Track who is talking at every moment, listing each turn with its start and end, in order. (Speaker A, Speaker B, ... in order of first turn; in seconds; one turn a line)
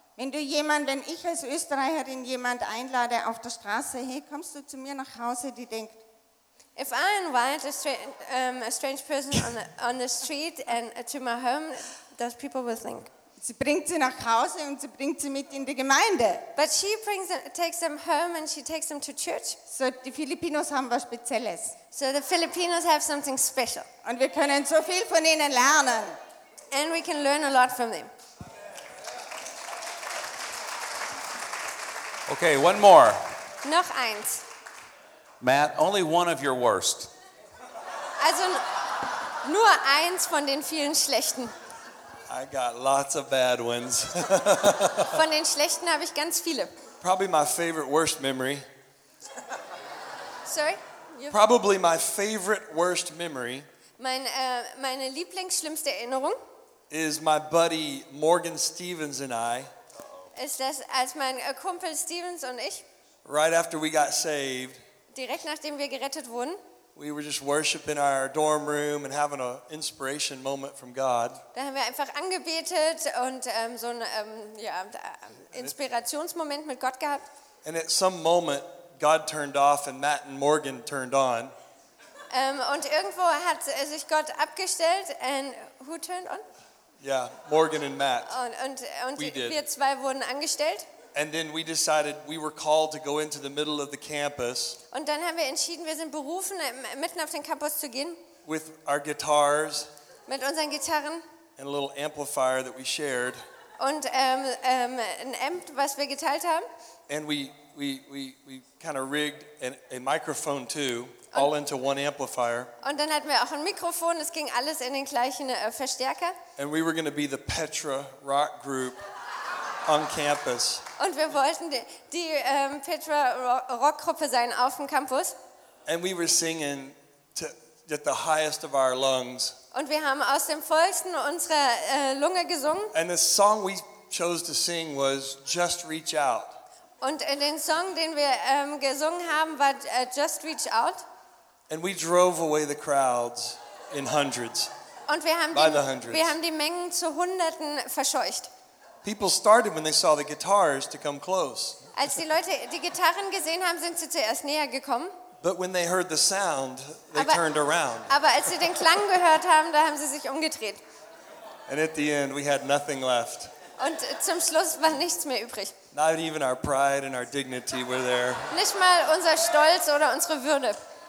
Speaker A: 0.2-6.0
Speaker B: 6.8-13.1
Speaker A: 13.4-16.5
Speaker B: 16.6-19.6
Speaker A: 19.7-21.8
Speaker B: 21.9-23.9
Speaker A: 24.0-26.2
Speaker B: 26.7-28.1
Speaker C: 32.3-33.2
Speaker B: 33.6-34.4
Speaker C: 35.4-37.1
Speaker B: 38.2-41.5
Speaker D: 42.3-45.2
Speaker B: 45.1-46.7
Speaker D: 47.0-48.6
Speaker B: 50.5-51.4
Speaker D: 51.3-53.7
Speaker B: 54.0-56.4
Speaker D: 56.9-59.7
Speaker B: 60.3-62.9
Speaker D: 63.2-64.8
Speaker B: 65.1-66.6
Speaker D: 66.9-71.4
Speaker B: 71.5-77.2
Speaker D: 77.6-81.5
Speaker B: 82.3-86.4
Speaker D: 87.0-88.4
Speaker B: 88.2-90.9
Speaker D: 89.2-89.6
Speaker D: 91.1-94.8
Speaker B: 94.9-98.2
Speaker D: 98.4-99.9
Speaker B: 100.3-101.2
Speaker D: 101.6-103.4
Speaker B: 103.8-106.7
Speaker D: 107.1-112.7
Speaker B: 112.8-116.4
Speaker D: 116.6-119.0
Speaker D: 119.8-120.8
Speaker B: 121.0-125.4
Speaker D: 125.8-129.6
Speaker B: 129.7-132.9
Speaker D: 132.9-136.6
Speaker B: 137.0-141.0
Speaker D: 141.7-144.7
Speaker B: 145.1-148.5
Speaker D: 145.5-146.3
Speaker D: 149.0-151.9
Speaker B: 151.9-155.1
Speaker D: 155.4-158.8
Speaker B: 157.1-157.4
Speaker B: 158.1-160.8
Speaker D: 161.7-163.5
Speaker B: 163.8-165.8
Speaker D: 165.9-168.6
Speaker B: 168.5-170.8